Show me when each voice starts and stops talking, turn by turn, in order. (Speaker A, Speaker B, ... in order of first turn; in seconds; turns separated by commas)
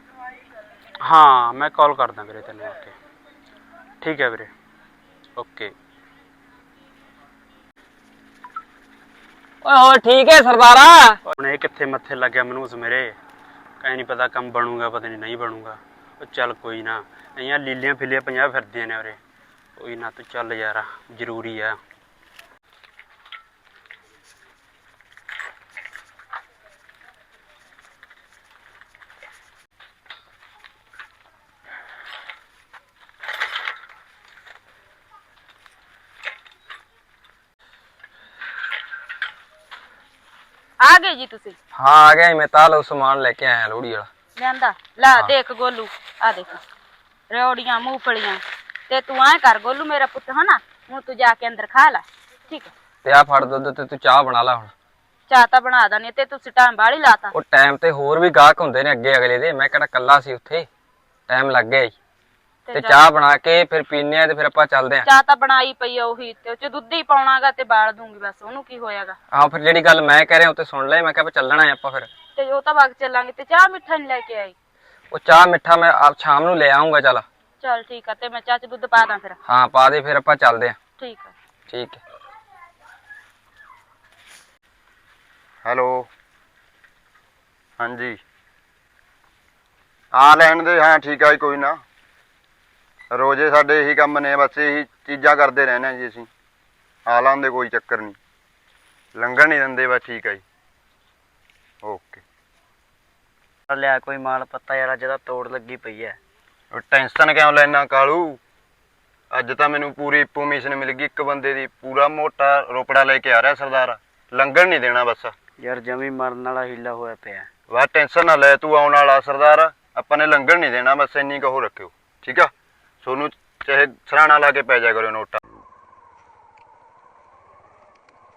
Speaker A: 1.0-2.9, Speaker A: 4.0-4.5, Speaker A: 5.4-5.7, Speaker B: 9.6-11.2, Speaker A: 11.3-13.2, Speaker A: 13.8-19.2, Speaker A: 19.8-21.8, Speaker C: 40.8-41.5, Speaker B: 41.8-44.1, Speaker C: 44.4-46.6, Speaker C: 47.3-52.7, Speaker B: 53.0-54.7, Speaker C: 55.3-57.3, Speaker B: 57.3-60.7, Speaker B: 61.3-61.9, Speaker C: 62.7-63.0, Speaker B: 62.7-65.1, Speaker C: 65.0-69.2, Speaker B: 69.3-72.1, Speaker C: 72.4-74.5, Speaker B: 75.1-77.2, Speaker C: 77.6-79.4, Speaker B: 79.5-80.8, Speaker C: 81.0-81.3, Speaker B: 81.7-82.0, Speaker D: 85.6-86.1, Speaker D: 87.8-88.2, Speaker D: 90.1-91.8, Speaker D: 93.1-96.3, Speaker D: 97.1-98.2, Speaker D: 99.2-100.4, Speaker D: 101.8-102.2, Speaker E: 103.7-106.2, Speaker D: 106.7-108.4, Speaker D: 109.3-115.3, Speaker E: 115.6-117.5, Speaker D: 117.7-122.5, Speaker D: 123.0-125.4